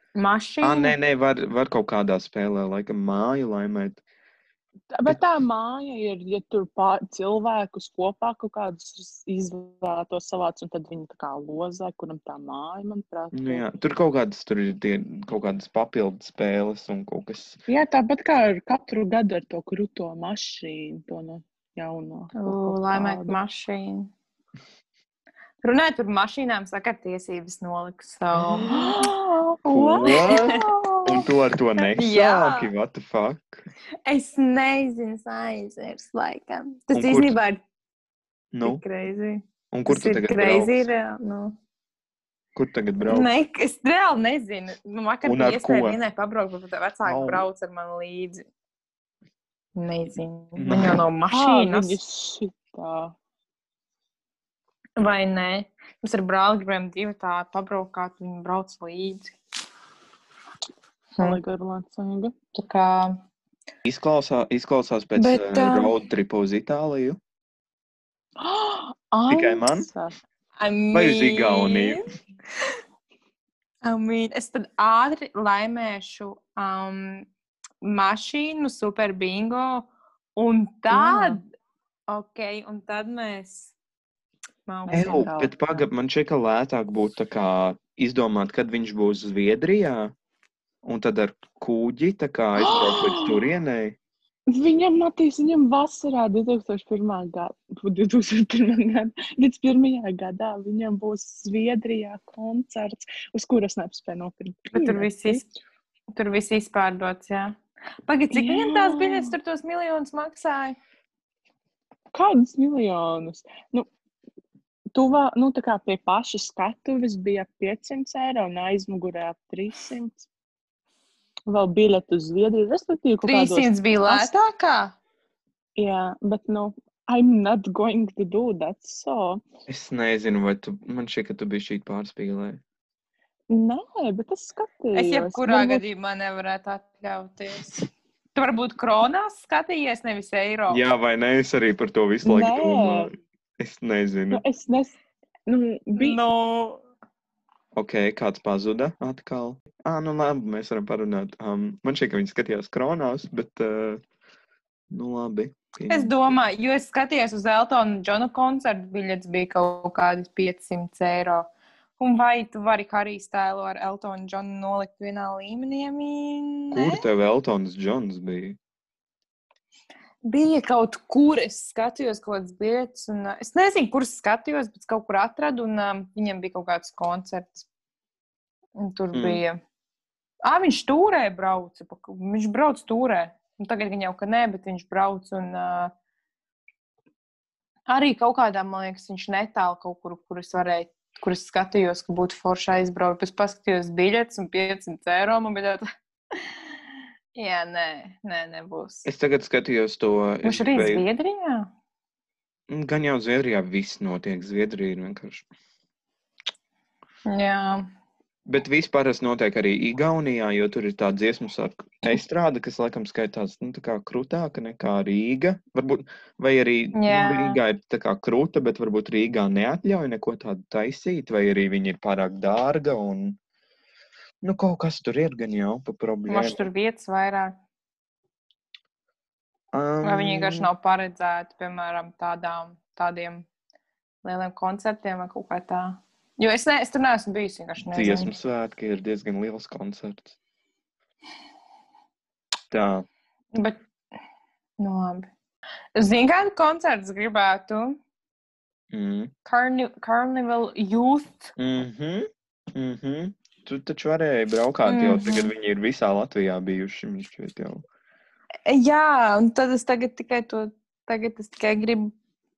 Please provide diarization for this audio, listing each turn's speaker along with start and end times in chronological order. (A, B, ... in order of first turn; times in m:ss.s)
0:00.2-0:00.9 A
0:00.6-0:04.0 B
0:04.9-0:13.6 C
0:13.3-0:17.6 B
0:17.7-0:23.4 C
0:22.4-0:24.1 A
0:25.6-0:28.8 A
0:28.4-0:28.8 B
0:28.6-0:31.0 C
0:29.6-0:31.0 A
0:29.7-0:33.6 B
0:31.8-0:32.7 A
0:34.0-0:37.6 A
0:36.9-0:37.3 B
0:38.5-0:38.8 B
0:38.6-0:41.6 A
0:39.7-0:40.9 B
0:42.5-0:43.3 B
0:43.1-0:48.4 A
0:45.2-0:46.0 B
0:47.0-0:47.4 B
0:49.8-0:52.0 A
0:50.6-0:51.0 B
0:51.3-0:53.1 C
0:55.0-0:59.3 A
1:01.2-1:02.3 C
1:02.5-1:03.2 A
1:03.8-1:07.2 B
1:05.2-1:05.9 A
1:08.4-1:10.1 C
1:09.3-1:09.9 B
1:10.6-1:12.0 A
1:10.9-1:12.0 B
1:13.8-1:17.3 A
1:17.8-1:21.4 A
1:20.9-1:21.4 C
1:22.1-1:23.7 A
1:24.7-1:25.3 A
1:24.9-1:25.8 C
1:24.9-1:30.1 B
1:30.8-1:34.0 B
1:32.6-1:33.4 C
1:34.5-1:45.4 C
1:44.7-1:45.5 A
1:46.1-1:50.8 A
1:48.3-1:49.3 C
1:52.1-1:53.9 C
1:54.9-2:00.3 C
2:01.5-2:04.3 C
2:03.2-2:04.9 A
2:05.8-2:09.4 C
2:09.7-2:12.6 B
2:13.5-2:15.8 C
2:14.9-2:17.8 A
2:18.3-2:20.8 A
2:20.7-2:24.4 B
2:22.2-2:23.1 C
2:24.3-2:26.2 C
2:26.0-2:26.8 A
2:27.7-2:34.0 B
2:34.9-2:36.1 B
2:35.9-2:47.0 A
2:46.7-2:48.6 B
2:50.2-2:57.7 A
2:58.8-2:59.6 A
2:59.1-2:59.4 B
3:00.4-3:05.9 A
3:07.9-3:15.8 A
3:17.3-3:19.1 A
3:19.0-3:21.0 B
3:20.4-3:21.7 A
3:22.7-3:25.4 B
3:27.3-3:27.8 A
3:28.4-3:43.4 B
3:36.9-3:37.6 A
3:44.4-3:46.6 B
3:46.3-3:47.5 A
3:49.7-3:50.7 B
3:50.0-3:53.4 A
3:54.2-3:58.3 A
3:57.8-4:00.4 B
4:02.7-4:03.0 B
4:03.5-4:03.8 A
4:04.8-4:05.3 A
4:06.0-4:08.0 A
4:08.9-4:09.3 B
4:09.4-4:11.5 A
4:11.6-4:17.8 B
4:14.8-4:15.5 A
4:18.6-4:22.1 A